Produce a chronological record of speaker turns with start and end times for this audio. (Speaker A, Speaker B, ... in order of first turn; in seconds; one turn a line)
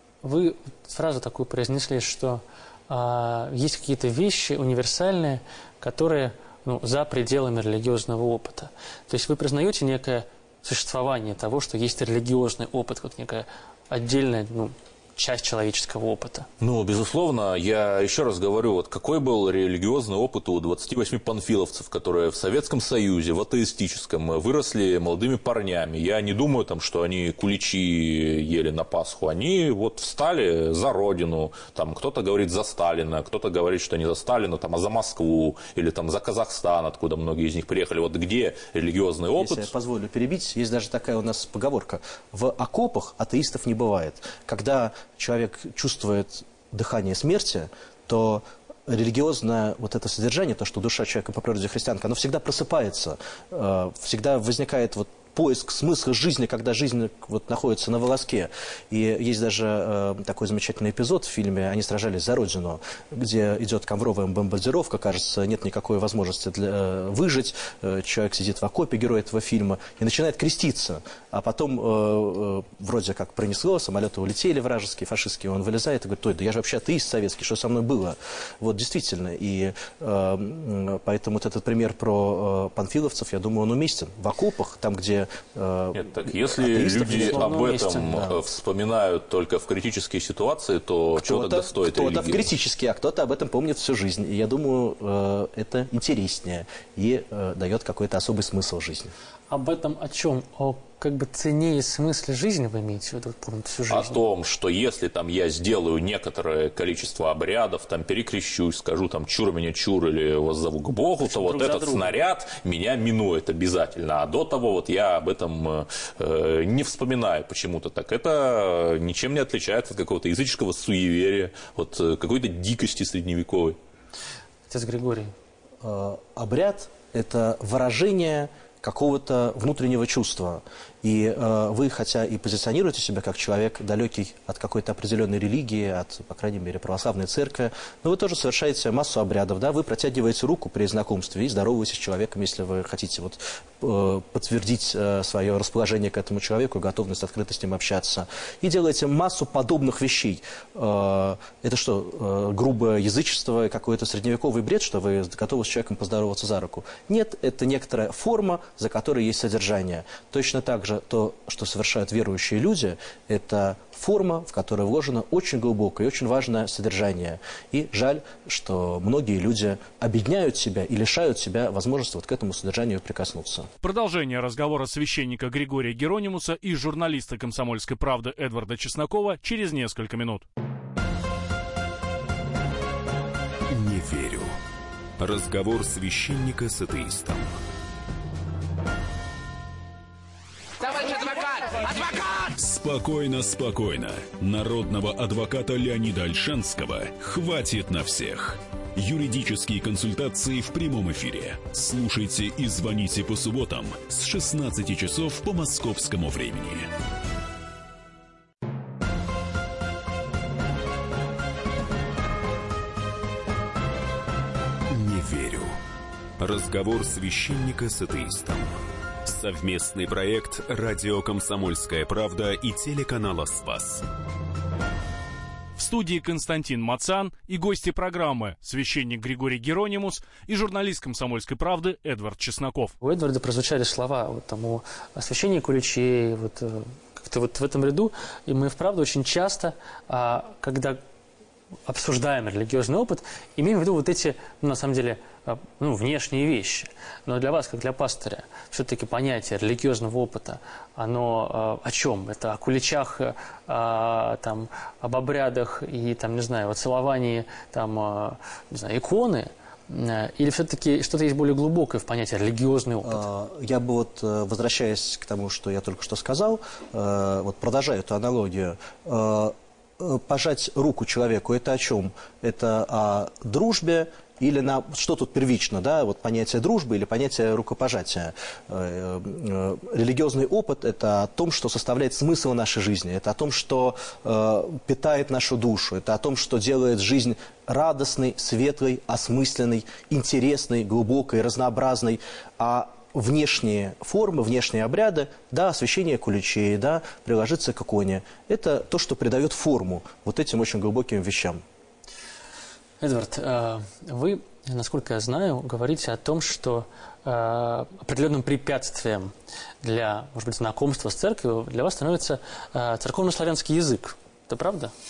Speaker A: 0.2-16.5
Speaker B: 16.6-39.7
Speaker C: 39.4-88.4
Speaker B: 86.0-92.5
Speaker A: 87.0-88.2
Speaker C: 91.2-99.1
Speaker A: 99.5-104.2
Speaker B: 103.9-123.8
Speaker A: 111.2-112.2
Speaker A: 124.7-125.3
Speaker C: 125.8-173.7
Speaker D: 173.8-180.5
Speaker E: 183.7-184.5
Speaker E: 185.2-187.5
Speaker E: 191.9-206.9
Speaker E: 214.9-215.8
Speaker E: 216.4-224.0
Speaker D: 225.8-232.9
Speaker A: 233.0-241.0
Speaker A: 241.9-263.2
Speaker C: 263.0-301.6
Speaker A: 303.0-314.9